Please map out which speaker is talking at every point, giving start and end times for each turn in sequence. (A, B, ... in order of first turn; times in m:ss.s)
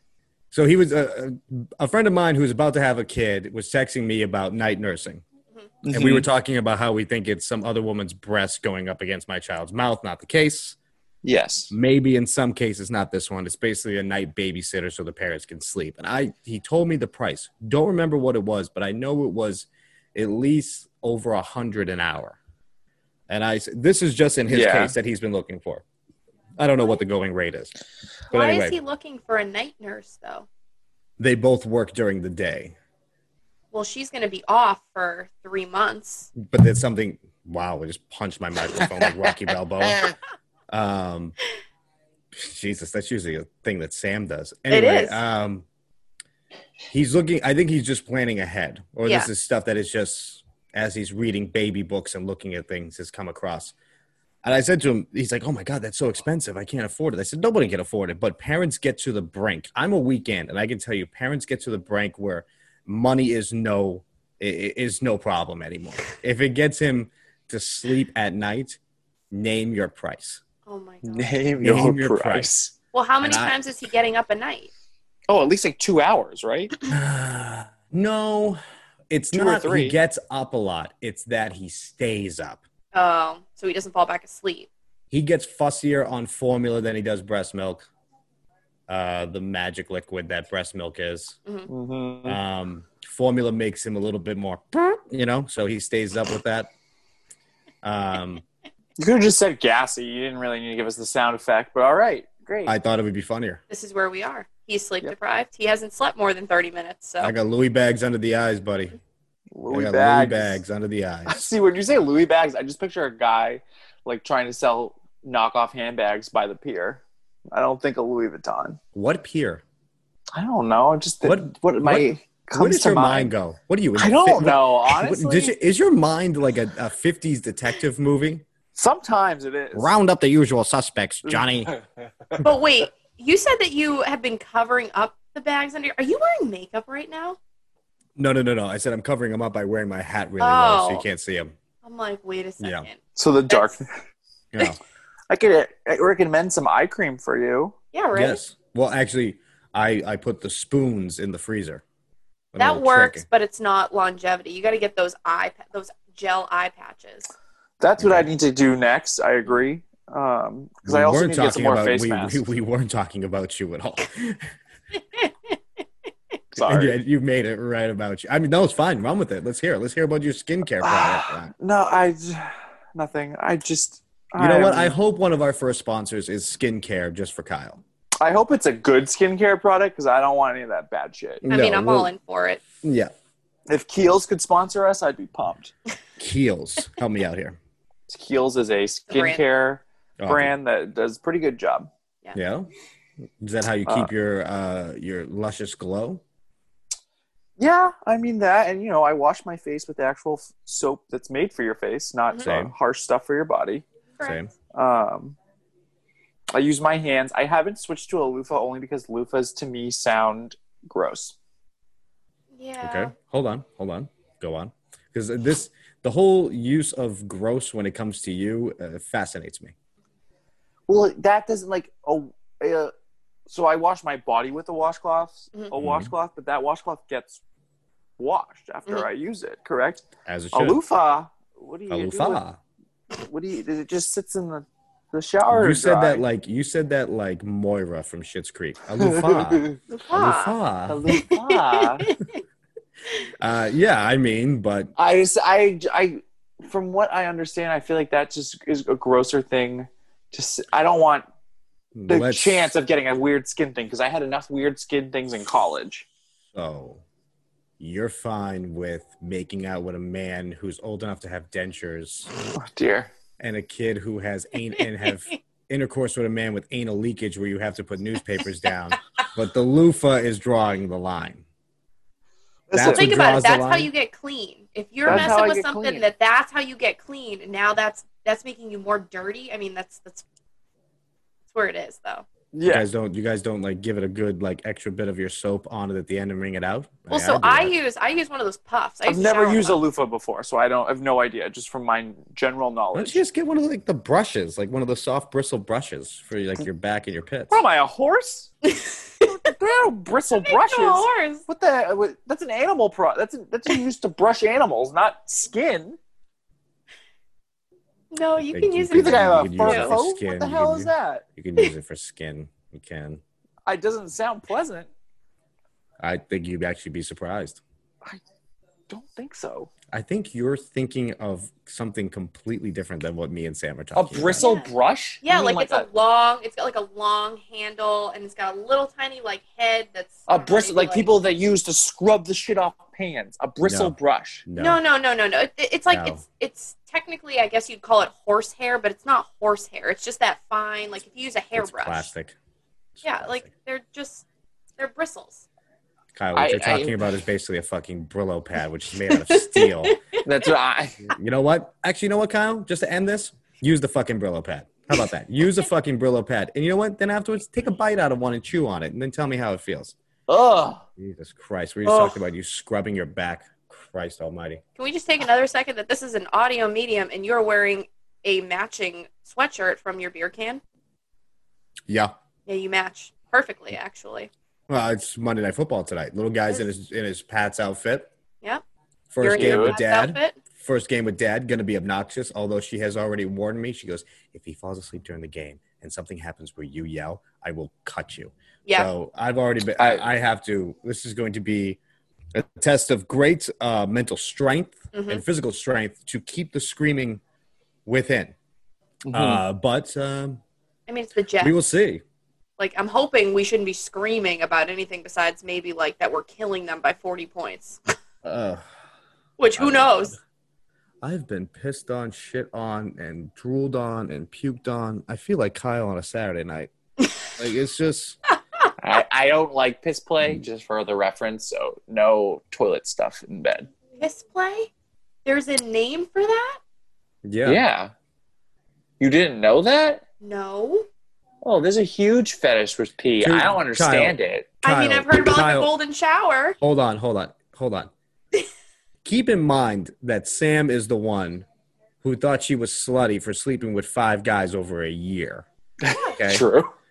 0:00.5-0:05.2 A
0:05.8-0:06.3 B
0:05.9-0:10.8 A
0:11.2-0:11.7 B
0:11.7-0:22.4 A
0:23.3-0:25.8 A
0:24.5-0:24.9 B
0:26.6-0:27.7 A
0:28.3-0:28.8 A
0:28.3-0:30.4 C
0:31.2-0:32.8 A
0:33.7-0:36.3 C
0:36.4-0:40.1 A
0:38.8-0:40.1 B
0:40.7-0:41.4 A
0:42.3-0:45.6 A
0:44.7-0:45.2 C
0:46.9-0:53.7 A
0:54.4-1:08.8 A
1:09.3-1:10.4 A
1:10.6-1:11.3 C
1:11.0-1:12.7 B
1:11.6-1:12.5 A
1:12.9-1:14.7 C
1:13.2-1:13.6 A
1:15.3-1:16.7 B
1:16.9-1:22.6 A
1:19.3-1:20.0 B
1:22.9-1:24.7 C
1:25.1-1:27.9 A
1:28.9-1:31.4 A
1:31.7-1:32.4 B
1:32.2-1:36.7 A
1:37.8-1:38.4 A
1:39.0-1:42.7 B
1:42.7-1:43.6 A
1:43.7-1:47.3 C
1:47.2-1:49.0 A
1:49.5-1:50.6 B
1:49.7-1:51.4 A
1:51.3-1:58.8 B
1:58.9-1:59.6 A
2:00.3-2:03.3 B
2:01.2-2:08.4 A
2:04.0-2:05.5 B
2:08.7-2:09.9 B
2:09.7-2:11.7 A
2:11.3-2:11.8 B
2:12.4-2:17.4 C
2:18.2-2:21.5 A
2:20.4-2:21.0 C
2:21.8-2:23.8 C
2:22.6-2:22.9 A
2:23.2-2:23.9 B
2:24.5-2:24.8 A
2:25.3-2:27.7 B
2:27.9-2:28.4 C
2:28.1-2:31.8 A
2:32.5-2:33.2 A
2:32.6-2:37.3 C
2:37.8-2:42.4 B
2:38.0-2:38.3 A
2:40.8-2:44.4 A
2:46.5-2:47.0 B
2:46.6-2:51.5 A
2:50.8-2:54.9 B
2:54.4-2:57.8 A
2:58.2-3:01.4 B
3:01.4-3:02.1 A
3:01.5-3:02.6 C
3:02.8-3:03.1 A
3:03.7-3:05.7 B
3:06.2-3:07.6 A
3:08.1-3:11.9 B
3:09.1-3:09.4 C
3:10.2-3:10.5 A
3:12.3-3:12.7 A
3:13.4-3:16.2 A
3:13.8-3:14.1 B
3:17.6-3:23.8 B
3:22.4-3:22.7 A
3:24.2-3:24.4 C
3:24.2-3:24.5 A
3:24.7-3:25.4 B
3:26.5-3:31.3 B
3:32.5-3:33.1 C
3:32.8-3:39.7 A
3:40.9-3:42.9 B
3:43.5-3:47.4 B
3:45.8-3:46.1 A
3:48.2-3:52.4 B
3:50.2-3:50.8 A
3:51.9-3:52.6 A
3:53.1-3:56.2 B
3:55.5-4:01.0 A
3:59.0-3:59.8 B
3:59.9-4:00.5 C
4:00.9-4:02.1 B
4:01.1-4:02.2 C
4:03.4-4:04.9 A
4:05.0-4:11.2 B
4:11.9-4:12.7 A
4:12.1-4:16.1 B
4:16.5-4:17.0 A
4:17.8-4:22.3 A
4:22.5-4:23.1 B
4:23.4-4:31.4 A
4:25.0-4:25.3 C
4:32.7-4:33.3 B
4:32.7-4:33.9 A
4:32.9-4:40.2 C
4:35.0-4:36.1 B
4:35.0-4:35.3 A
4:41.5-4:42.2 C
4:42.5-4:42.8 B
4:42.6-4:47.7 A
4:47.1-4:49.8 C
4:49.0-4:53.2 B
4:52.9-4:57.6 A
4:57.5-4:58.5 B
4:58.6-4:59.3 C
4:59.2-5:06.0 B
5:00.4-5:01.4 C
5:08.1-5:09.9 C
5:08.5-5:13.2 A
5:08.9-5:11.2 B
5:13.6-5:14.9 B
5:16.0-5:17.6 A
5:18.9-5:19.7 B
5:19.9-5:24.4 A
5:23.9-5:25.9 B
5:24.4-5:24.7 C
5:25.2-5:31.1 C
5:30.3-5:34.4 B
5:33.6-5:33.9 A
5:34.4-5:34.8 A
5:34.6-5:42.1 C
5:35.9-5:36.2 A
5:41.6-5:42.3 A
5:43.0-5:43.4 A
5:43.0-5:44.2 C
5:44.8-5:45.4 C
5:46.1-5:50.0 A
5:46.3-5:47.1 B
5:49.1-5:50.2 C
5:50.2-5:51.1 B
5:51.1-5:59.9 A
6:00.3-6:00.8 B
6:01.0-6:04.6 A
6:01.9-6:02.1 B
6:04.8-6:10.6 C
6:12.5-6:14.3 C
6:14.7-6:18.1 A
6:19.1-6:31.8 A
6:19.2-6:20.4 C
6:19.2-6:19.8 B
6:29.8-6:30.0 B
6:32.3-6:37.2 A
6:34.9-6:35.2 C
6:37.8-6:38.3 A
6:39.0-6:39.4 B
6:39.1-6:40.4 A
6:40.9-6:41.5 C
6:41.4-6:42.0 A
6:42.6-6:47.8 C
6:48.2-6:48.6 A
6:49.4-6:50.2 C
6:49.6-6:50.1 A
6:51.0-6:56.7 A
6:57.4-6:58.2 A
6:58.8-7:03.7 B
7:04.0-7:04.7 C
7:05.2-7:06.6 C
7:07.2-7:07.6 A
7:07.4-7:07.9 B
7:09.0-7:10.0 B
7:10.2-7:10.9 C
7:11.4-7:14.5 B
7:13.2-7:15.7 A
7:14.6-7:16.6 C
7:16.6-7:17.9 A
7:19.0-7:21.4 A
7:22.0-7:25.4 A
7:25.8-7:26.7 B
7:25.9-7:26.2 C
7:26.1-7:26.4 A